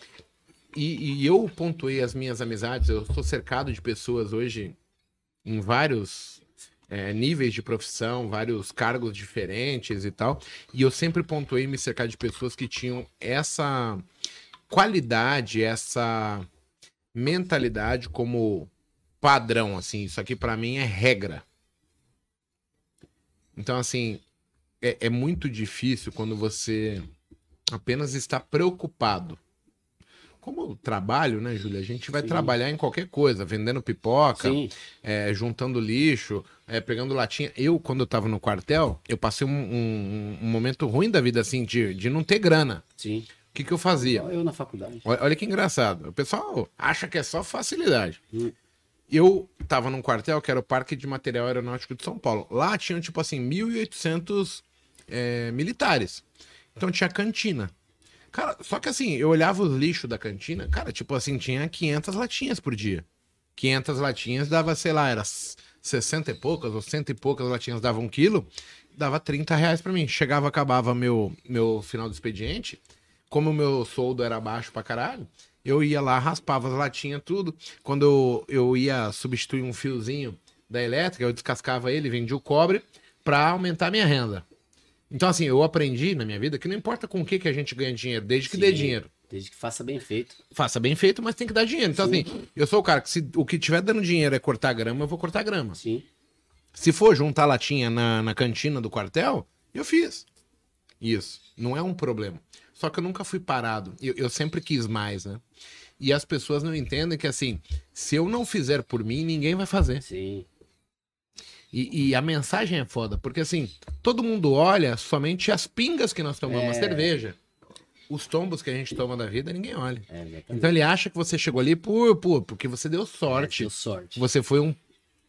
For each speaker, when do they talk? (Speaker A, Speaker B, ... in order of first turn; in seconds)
Speaker A: 0.7-4.8, 5.4-14.0, 14.7-16.4, 17.1-18.7, 19.2-21.4, 23.6-24.2, 24.8-27.1, 27.7-29.4, 30.4-42.8, 43.5-44.2, 45.0-48.2, 49.1-56.2, 56.8-57.7, 58.3-63.0, 63.5-84.4, 85.1-89.1, 90.5-95.8, 96.7-100.2, 101.0-105.4, 106.0-110.0, 111.7-117.4, 118.1-124.8
Speaker B: 32.2-32.5, 34.4-34.7, 43.0-43.3, 44.0-45.0, 88.5-90.4, 92.0-92.2, 95.7-96.0, 110.0-110.5, 116.5-117.1, 120.1-120.7, 123.3-124.2